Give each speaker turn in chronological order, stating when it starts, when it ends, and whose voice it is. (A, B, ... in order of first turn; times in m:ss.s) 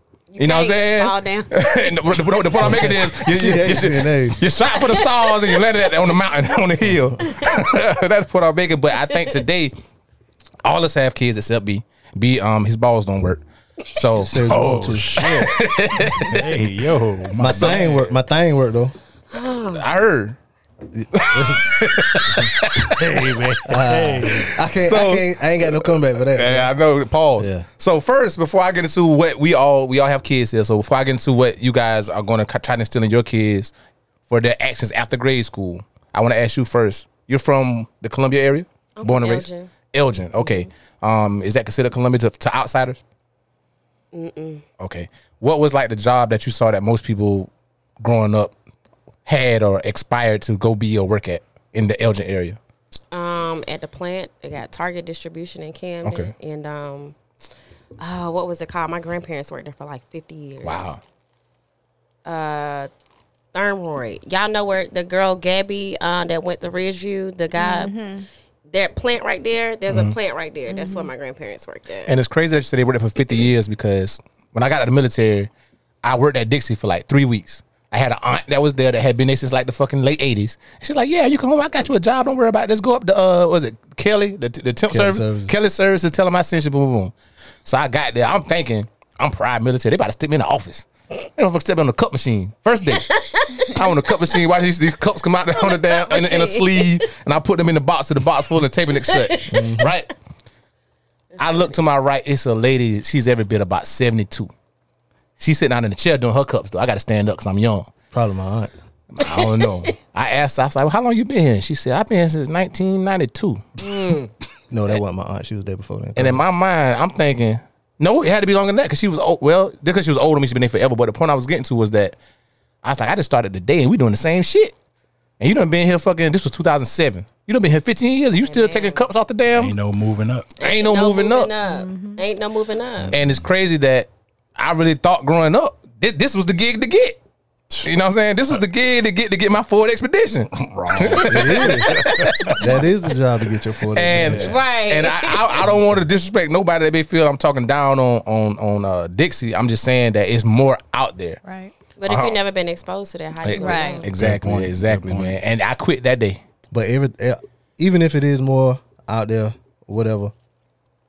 0:00.3-0:01.8 A
0:00.4-0:09.7 B
0:02.6-0:04.4 C
0:04.7-0:06.1 A
0:07.2-0:07.6 A
0:09.1-0:09.4 A
0:10.6-0:14.5 B
0:14.2-0:15.4 C
0:14.4-0:18.2 D
0:15.2-0:16.6 B
0:17.4-0:19.0 C
0:17.5-0:17.8 B
0:19.3-0:19.9 A
0:19.7-0:20.4 B
0:21.0-0:22.6 C
0:21.2-0:23.6 B
0:23.0-0:24.6 D
0:23.6-0:26.7 C
0:24.8-0:33.7 B
0:27.4-0:27.7 C
0:34.3-0:43.0 B
0:39.0-0:39.7 A
0:40.4-0:40.7 A
0:44.1-0:44.6 A
0:44.8-0:47.5 B
0:48.0-0:48.6 B
0:49.3-0:52.6 B
0:53.1-0:57.2 A
0:56.0-0:56.3 B
0:58.0-1:00.9 A
1:00.6-1:01.0 B
1:02.2-1:02.9 A
1:03.5-1:07.9 A
1:07.6-1:08.3 E
1:08.7-1:12.2 A
1:09.9-1:10.2 B
1:10.7-1:11.1 E
1:12.1-1:15.5 B
1:16.0-1:27.1 B
1:24.9-1:25.5 C
1:27.6-1:40.1 B
1:33.1-1:34.0 A
1:35.5-1:37.0 A
1:39.1-1:39.7 A
1:39.5-1:39.9 C
1:41.4-1:44.5 B
1:41.4-1:41.7 A
1:45.4-1:47.9 B
1:48.1-1:48.7 C
1:49.1-1:54.0 B
1:49.2-1:49.9 A
1:53.8-1:54.3 A
1:54.7-1:56.4 C
1:56.2-2:02.2 B
2:02.8-2:04.7 B
2:05.4-2:09.8 B
2:08.4-2:09.0 A
2:09.5-2:10.5 D
2:10.6-2:13.2 A
2:10.6-2:11.5 B
2:11.7-2:12.2 E
2:13.1-2:17.2 B
2:17.8-2:22.8 B
2:20.5-2:22.6 D
2:21.2-2:24.5 C
2:23.9-2:31.4 B
2:24.2-2:24.6 D
2:24.4-2:25.7 A
2:31.4-2:31.7 E
2:32.0-2:34.1 A
2:32.1-2:32.4 B
2:33.4-2:36.4 B
2:33.6-2:34.0 E
2:34.2-2:35.4 D
2:36.7-2:40.3 C